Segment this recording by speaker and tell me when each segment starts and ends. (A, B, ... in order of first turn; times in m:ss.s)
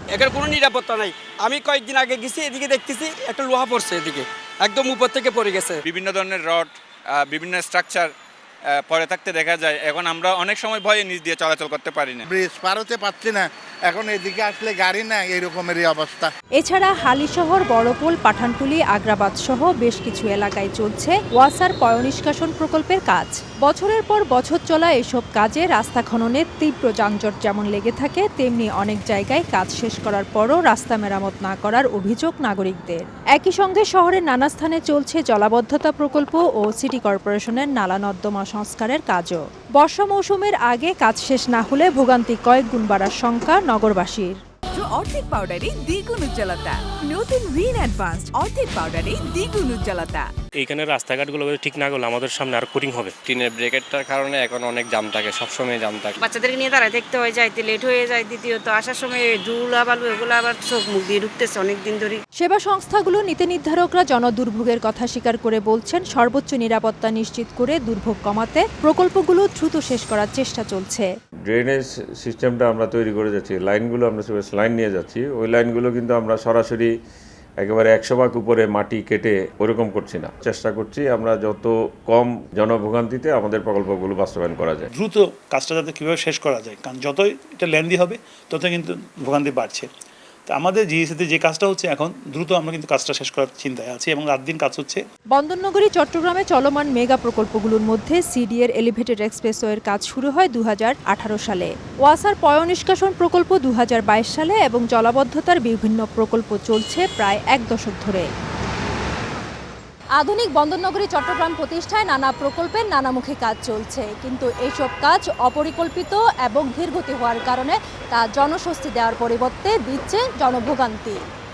0:00.1-0:05.8 A
0:05.8-0:08.1 B
0:08.8-0:12.2 B
0:12.3-0:16.3 C
0:16.6-0:44.4 D
0:44.8-0:50.3 E
0:50.6-0:53.1 F
0:53.2-0:56.2 G
0:56.2-1:02.2 H
1:02.4-1:11.1 D
1:11.4-1:16.9 I
1:17.6-1:24.9 I
1:24.9-1:29.9 J
1:30.5-1:35.0 J
1:35.3-1:48.3 D
1:50.2-2:01.2 D